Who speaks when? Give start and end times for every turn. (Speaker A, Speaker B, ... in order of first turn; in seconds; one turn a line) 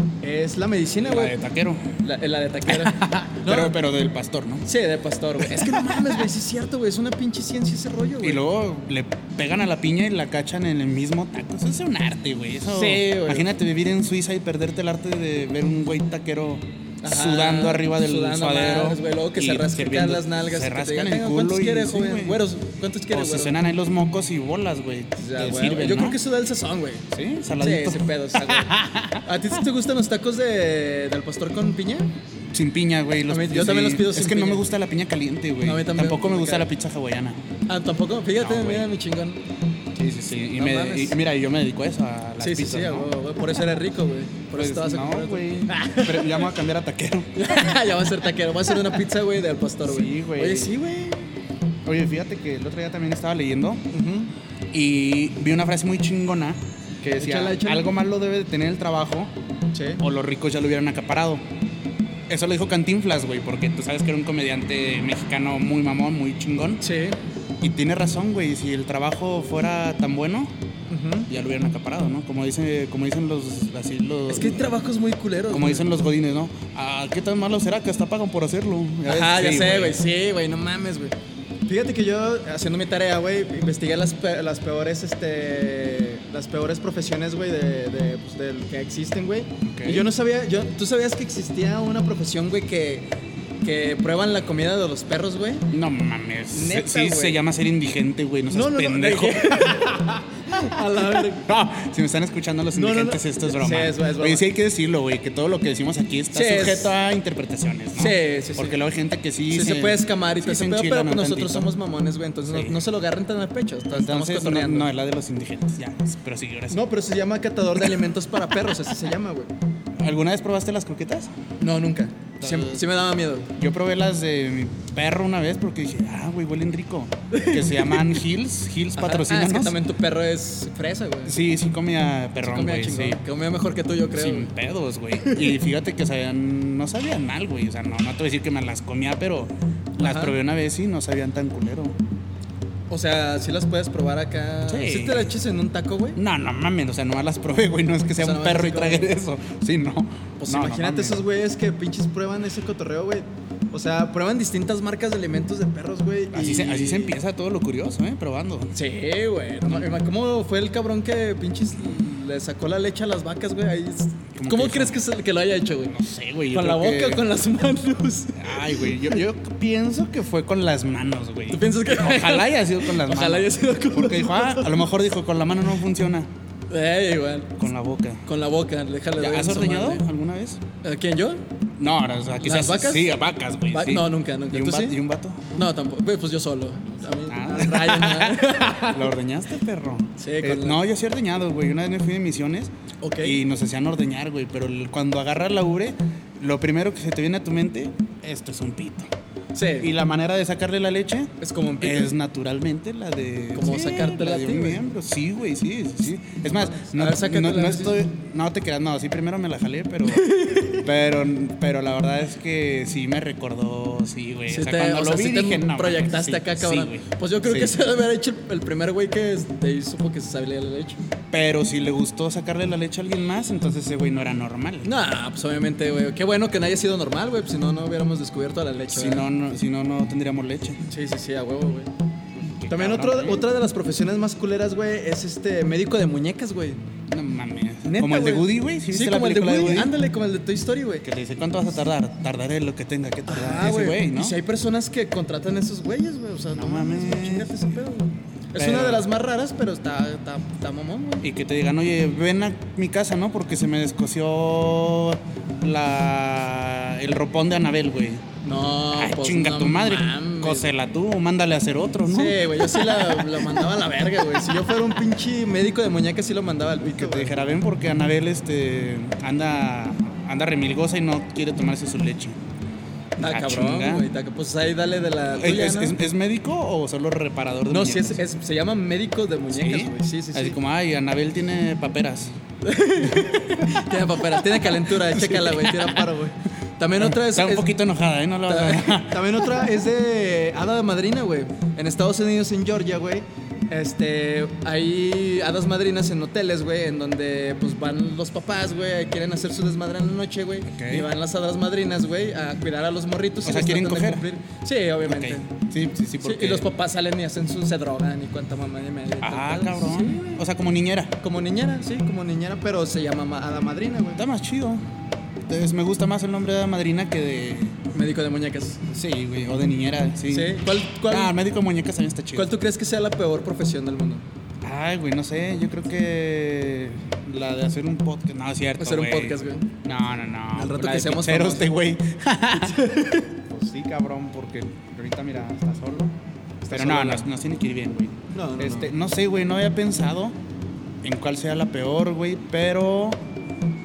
Speaker A: 0.2-1.4
Speaker B: 1.0-1.9
Speaker A: 2.0-3.8
Speaker B: 2.6-4.7
Speaker A: 4.6-8.4
Speaker B: 5.4-6.3
Speaker B: 8.2-22.4
Speaker A: 12.6-13.5
Speaker A: 17.0-23.5
Speaker B: 23.1-26.2
Speaker A: 25.2-27.1
Speaker B: 27.1-29.6
Speaker A: 27.6-32.1
Speaker B: 32.5-37.6
Speaker A: 33.3-34.6
Speaker A: 35.6-36.7
Speaker A: 37.7-39.4
Speaker B: 38.4-38.9
Speaker B: 39.9-43.1
Speaker A: 40.5-41.1
Speaker A: 42.4-46.5
Speaker B: 44.5-47.9
Speaker A: 47.4-51.3
Speaker B: 48.7-49.0
Speaker B: 49.8-50.8
Speaker B: 51.8-53.8
Speaker A: 53.9-54.3
Speaker B: 54.7-59.3
Speaker A: 57.2-57.9
Speaker A: 59.7-60.0
Speaker B: 60.0-61.4
Speaker B: 62.3-66.8
Speaker A: 66.8-67.2
Speaker B: 67.6-70.5
Speaker A: 70.9-71.3
Speaker B: 71.3-74.6
Speaker A: 74.3-75.9
Speaker B: 75.5-80.0
Speaker A: 79.0-81.1
Speaker A: 81.7-93.1
Speaker B: 89.6-90.1
Speaker A: 93.6-95.7
Speaker B: 95.7-100.0
Speaker A: 96.5-97.4
Speaker A: 98.5-101.5
Speaker B: 101.2-111.7
Speaker A: 102.7-104.5
Speaker A: 106.3-106.9
Speaker A: 108.0-108.8
Speaker A: 109.5-114.9
Speaker B: 112.5-112.8
Speaker B: 113.9-116.8
Speaker A: 116.7-119.5
Speaker B: 120.0-121.3
Speaker A: 121.6-123.5
Speaker B: 122.4-122.8
Speaker B: 123.5-129.8
Speaker A: 127.3-128.2
Speaker A: 128.9-131.4
Speaker B: 131.2-133.2
Speaker A: 132.4-134.5
Speaker B: 134.1-142.0
Speaker A: 135.1-135.6
Speaker A: 140.0-140.3
Speaker A: 142.9-146.2
Speaker B: 144.7-145.3
Speaker B: 146.2-151.2
Speaker A: 148.2-149.1
Speaker A: 150.4-157.2
Speaker B: 156.3-158.7
Speaker A: 158.7-166.0
Speaker B: 164.3-165.0
Speaker B: 165.9-167.2
Speaker A: 166.5-169.2
Speaker B: 168.3-176.3
Speaker A: 171.5-174.9
Speaker A: 176.7-177.6
Speaker B: 177.6-178.2
Speaker A: 178.2-180.0
Speaker B: 179.2-180.6
Speaker A: 180.8-181.4
Speaker B: 181.8-185.6
Speaker A: 182.4-183.1
Speaker A: 183.7-185.0
Speaker A: 185.5-189.1
Speaker B: 187.3-199.1
Speaker A: 190.2-190.8
Speaker A: 193.0-193.4
Speaker A: 199.5-199.9
Speaker B: 199.8-217.7
Speaker A: 201.4-202.2
Speaker A: 203.5-204.8
Speaker A: 206.5-208.0
Speaker A: 210.1-210.9
Speaker A: 214.5-221.0
Speaker B: 221.3-224.9
Speaker A: 224.8-229.3
Speaker B: 228.9-230.8
Speaker A: 230.9-231.9
Speaker B: 232.4-233.4
Speaker A: 232.7-236.8
Speaker B: 237.1-239.9
Speaker A: 237.8-241.1
Speaker B: 241.0-244.4
Speaker A: 243.3-251.3
Speaker B: 246.5-247.7
Speaker B: 248.6-249.1
Speaker B: 251.2-258.2
Speaker A: 258.4-260.7
Speaker B: 258.9-263.7
Speaker A: 262.1-267.5
Speaker B: 266.8-272.4
Speaker B: 273.2-274.1
Speaker A: 273.2-276.0
Speaker B: 275.3-278.2
Speaker A: 277.7-280.6
Speaker B: 279.5-282.3
Speaker A: 282.6-287.7
Speaker B: 283.1-286.0
Speaker B: 287.0-289.7
Speaker A: 288.5-305.5
Speaker B: 300.7-301.1
Speaker B: 303.4-304.2
Speaker B: 305.0-306.7
Speaker A: 306.2-310.4
Speaker B: 309.2-311.1
Speaker A: 311.2-314.2
Speaker B: 314.2-314.8
Speaker B: 315.5-317.8
Speaker A: 317.9-318.8
Speaker B: 318.9-322.5
Speaker A: 320.3-321.3
Speaker A: 322.3-324.2
Speaker B: 324.6-332.9
Speaker A: 328.8-329.7
Speaker A: 330.5-331.7
Speaker A: 332.6-333.3
Speaker B: 333.4-336.1
Speaker A: 336.6-337.3
Speaker B: 336.7-340.4
Speaker A: 338.3-338.9
Speaker B: 341.0-343.2